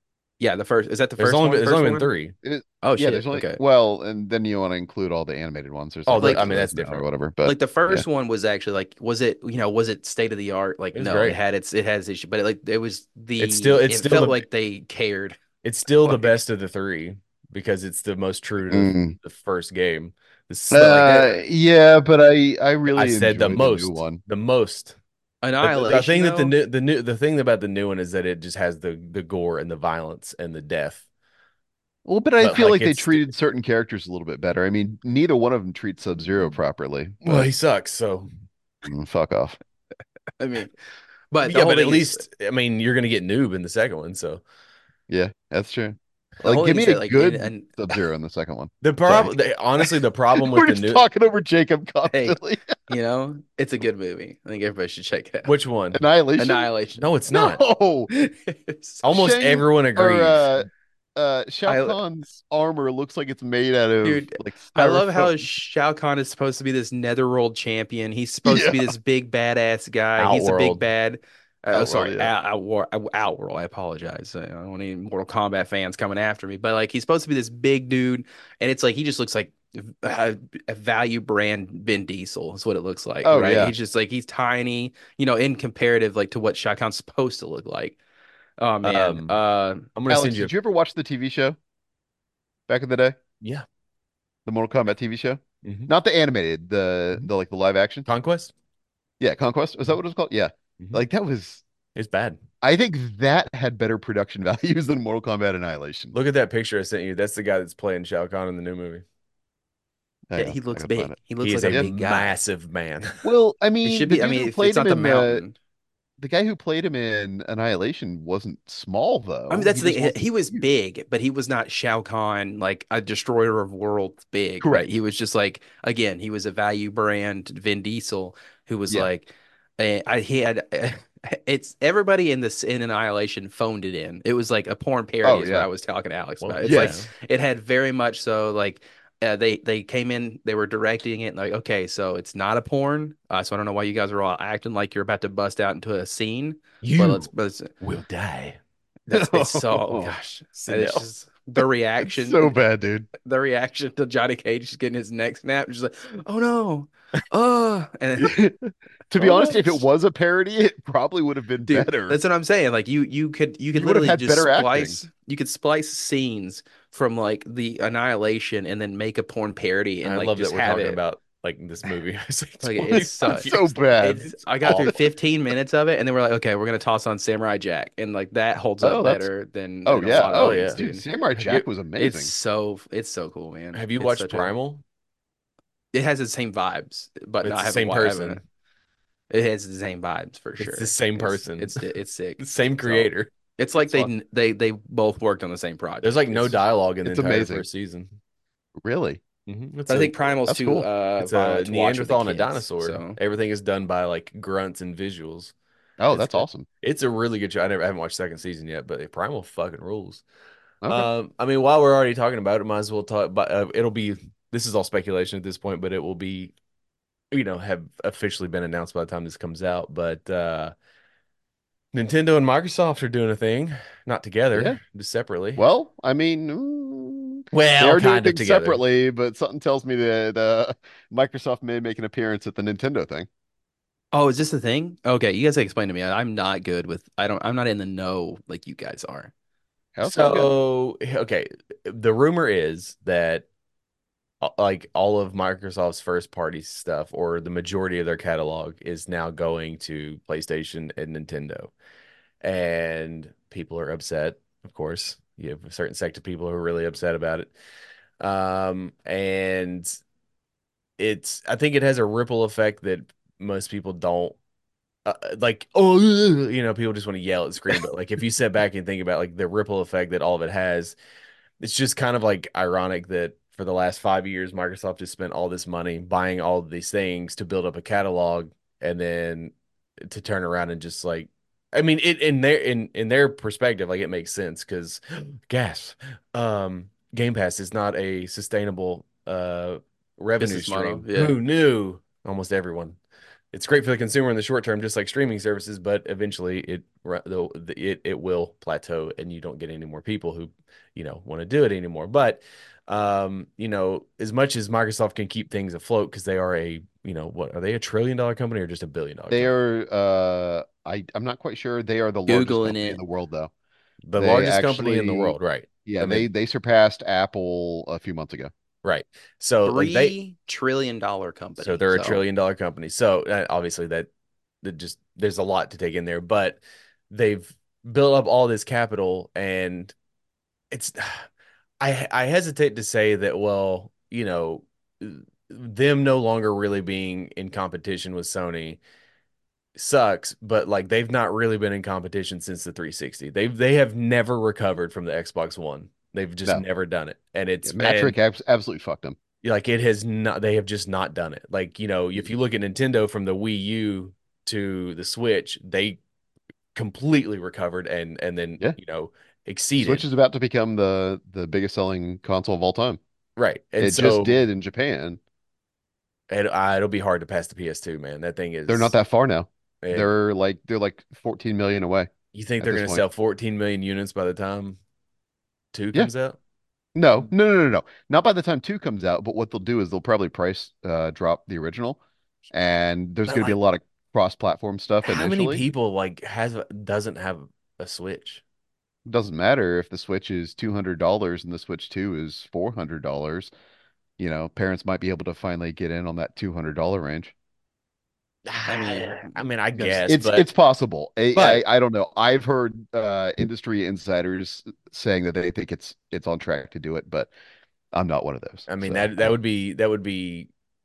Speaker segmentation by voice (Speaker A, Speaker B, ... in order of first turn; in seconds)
Speaker A: 0.4-2.1, 2.8-3.6, 6.2-6.5, 7.5-15.4, 25.4-26.5, 40.4-40.7, 41.3-42.2, 46.4-47.7, 52.1-55.5, 56.4-57.1, 58.1-59.0, 61.7-62.0, 64.0-88.0, 88.6-89.9, 110.4-112.4, 113.8-115.5, 119.5-147.7, 149.1-152.6, 153.2-158.4, 159.2-159.8, 161.7-171.0, 172.6-184.5, 185.9-188.4, 189.3-196.6, 199.9-203.2, 234.1-239.3, 290.4-291.4, 312.3-313.0, 319.6-322.2, 398.7-399.4
Speaker B: 1.2-2.3, 6.1-7.1, 10.9-11.4, 13.4-14.4, 15.6-21.4, 22.9-25.0, 25.6-31.0, 32.4-33.2, 37.2-38.3, 41.4-44.4, 48.8-51.0, 55.5-56.0, 57.0-57.6, 59.0-60.5, 70.2-70.8, 88.8-89.4, 90.0-90.5, 95.6-95.9, 98.1-98.5, 102.0-102.4, 106.1-109.0, 111.4-113.3, 136.4-137.1, 146.8-147.3, 147.8-148.6, 170.0-175.0, 180.3-180.8, 183.7-184.8, 187.4-188.4, 190.6-191.8, 192.4-194.1, 196.0-198.1, 199.5-200.4, 201.2-205.5, 206.1-210.2, 210.9-216.5, 217.3-220.7, 221.9-225.7, 227.5-228.8, 240.0-243.5, 244.4-251.7, 252.4-257.5, 258.2-260.0, 261.0-264.4, 265.1-271.0, 271.6-279.5, 280.0-293.0, 293.5-309.5, 314.1-316.3, 318.8-320.1, 321.6-324.1, 324.6-329.9, 330.7-331.3, 331.8-338.8, 339.8-348.2, 349.4-356.0, 356.8-360.0, 363.4-364.4, 366.3-369.0, 369.8-370.1, 372.3-374.8, 375.7-376.4, 383.3-383.6, 385.0-388.4, 398.5-400.5, 401.3-401.6, 408.7-410.5
Speaker C: 2.4-8.1, 18.7-19.2, 20.7-24.2, 32.0-37.5, 38.9-39.6, 45.1-52.8, 55.9-56.7, 57.3-58.1, 59.1-65.4, 68.5-68.9, 71.7-72.3, 83.2-83.8, 90.1-91.6, 92.7-93.2, 94.5-98.1, 99.2-101.6, 102.6-106.2, 110.3-111.2, 113.2-115.4, 116.2-120.7, 124.6-124.9, 135.2-135.7, 136.6-137.0, 149.1-150.2, 150.7-151.0, 152.0-153.1, 158.2-158.6, 159.1-162.2, 163.7-165.0, 172.9-174.9, 178.8-179.3, 179.8-182.3, 197.1-197.7, 198.8-199.2, 200.5-200.9, 206.0-206.7, 210.8-211.1, 224.5-224.8, 225.6-233.3, 240.0-240.5, 309.3-313.5, 314.1-318.5, 347.6-349.2, 359.8-363.0, 363.8-365.2, 368.7-372.1, 372.6-373.0, 376.9-385.6, 389.1-393.5, 394.2-397.3, 399.8-407.3, 407.9-409.4